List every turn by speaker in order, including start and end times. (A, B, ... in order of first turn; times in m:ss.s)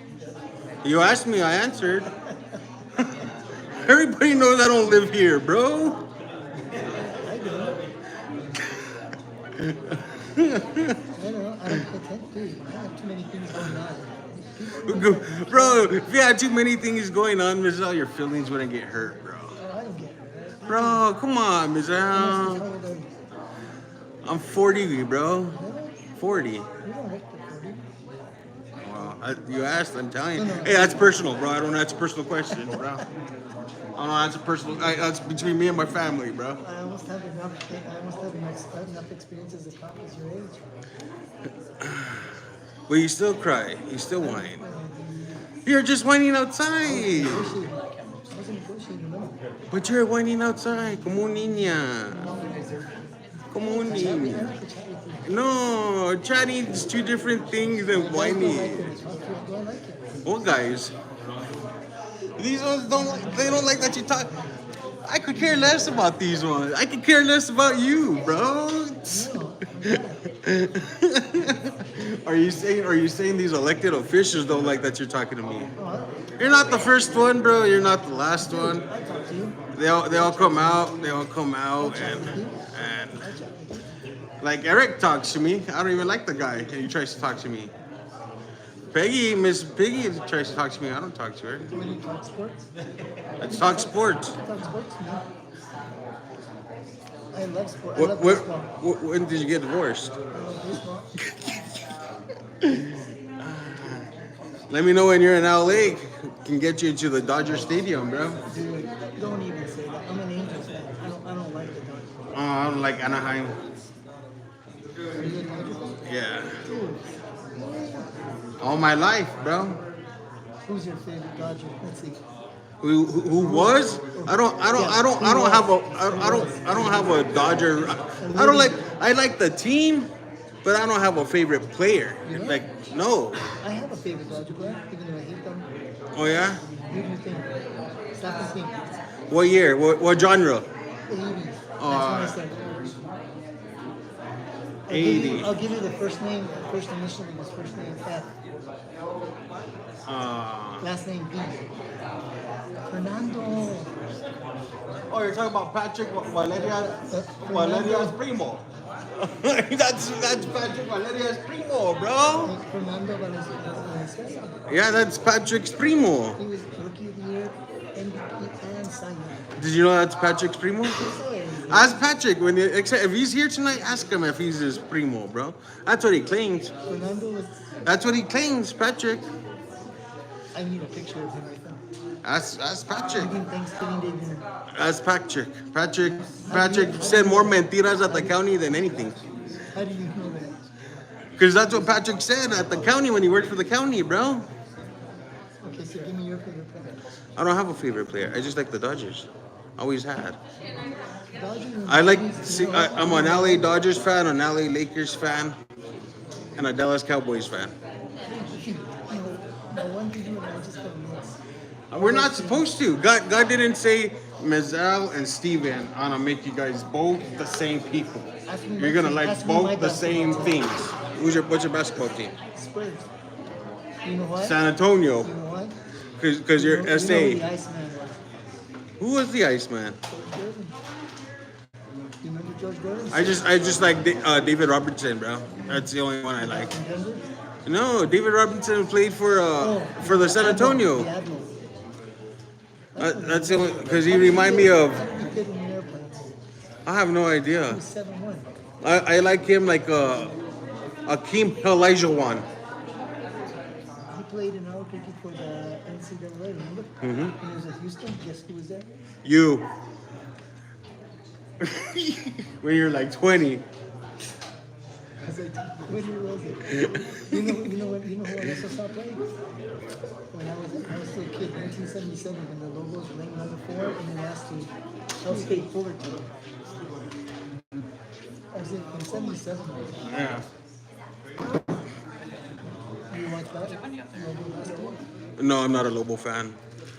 0:00.8-0:02.1 A
0:03.0-0:03.3 A
0:03.8-0:06.0 A
0:06.9-0:07.8 B
0:09.6-0:11.0 A
0:11.1-0:15.9 B
0:14.8-0:19.6 A
0:19.6-0:21.0 B
0:20.7-0:22.6 A
0:22.1-0:23.1 B
0:24.2-0:25.6 A
0:25.5-0:26.0 B
0:26.2-0:26.7 A
0:26.8-0:27.8 B
0:28.8-0:33.0 A
0:30.4-0:31.2 B
0:34.0-0:36.6 A
0:36.6-0:40.6 B
0:41.8-0:42.3 A
0:42.9-0:44.6 A
0:44.2-0:45.4 B
0:45.6-0:47.6 A
0:46.8-0:49.4 B
0:49.7-0:52.3 A
0:52.1-0:55.3 B
0:53.5-0:54.5 A
0:55.2-0:58.9 A
0:57.9-1:00.2 B
1:00.2-1:00.9 A
1:02.4-1:04.3 A
1:05.0-1:09.3 A
1:09.0-1:10.2 B
1:09.8-1:15.7 A
1:15.8-1:16.2 B
1:16.4-1:18.8 A
1:18.4-1:21.2 B
1:19.7-1:23.2 A
1:21.8-1:23.8 B
1:24.4-1:27.7 A
1:28.9-1:31.7 A
1:31.7-1:32.7 B
1:33.4-1:34.3 A
1:33.4-1:35.2 B
1:37.3-1:38.7 B
1:38.0-1:40.1 A
1:40.3-1:41.1 B
1:41.2-1:41.6 A
1:42.6-1:44.1 A
1:44.7-1:48.4 A
1:48.5-1:52.2 B
1:52.3-1:53.6 A
1:55.2-1:56.0 B
1:56.0-1:56.6 A
1:56.6-1:58.1 B
1:58.6-1:59.8 A
2:00.6-2:02.2 B
2:02.8-2:10.1 A
2:03.4-2:07.2 B
2:08.2-2:08.8 B
2:10.6-2:13.4 A
2:12.2-2:12.6 B
2:13.6-2:15.7 B
2:16.1-2:16.6 A
2:16.9-2:17.5 B
2:18.2-2:18.9 B
2:19.3-2:20.7 A
2:21.1-2:22.9 B
2:21.8-2:22.4 A
2:24.9-2:28.3 B
2:24.9-2:25.5 A
2:30.0-2:30.9 A
2:30.8-2:31.6 B
2:32.9-2:33.9 B
2:35.1-2:38.6 A
2:36.5-2:38.2 B
2:39.2-2:42.6 A
2:42.4-2:44.6 B
2:44.7-2:46.4 A
2:46.4-2:49.4 B
2:49.6-2:51.0 A
2:50.9-2:52.0 B
2:51.7-2:56.7 A
2:56.9-2:57.7 B
2:57.8-2:59.3 A
3:00.5-3:01.8 B
3:02.2-3:03.4 A
3:03.1-3:04.4 B
3:04.7-3:09.2 A
3:06.4-3:08.4 B
3:09.7-3:10.6 B
3:11.4-3:14.5 A
3:15.6-3:17.0 B
3:17.4-3:20.4 A
3:21.3-3:23.7 B
3:21.9-3:25.6 A
3:26.6-3:27.7 A
3:28.2-3:31.4 B
3:31.9-3:42.3 A
3:31.9-3:32.7 B
3:38.5-3:40.7 B
3:42.5-3:43.1 B
3:44.0-3:44.6 B
3:44.4-3:45.3 A
3:45.2-3:45.8 B
3:46.2-3:47.4 A
3:46.6-3:48.2 B
3:49.0-3:50.0 A
3:50.1-3:50.8 B
3:52.2-3:53.5 B
3:53.1-3:56.7 A
3:55.6-3:57.3 B
3:57.6-4:01.1 A
3:59.6-4:01.5 B
4:02.9-4:06.3 B
4:03.0-4:05.0 A
4:06.8-4:07.8 A
4:07.7-4:08.5 B
4:08.8-4:10.4 A
4:11.0-4:12.5 A
4:14.1-4:19.0 B
4:17.0-4:17.3 A
4:19.2-4:19.7 A
4:21.6-4:23.6 A
4:25.2-4:29.2 B
4:26.8-4:27.5 A
4:30.3-4:36.2 B
4:38.5-4:40.1 B
4:40.0-4:40.4 A
4:43.1-4:45.0 B
4:45.4-4:46.6 A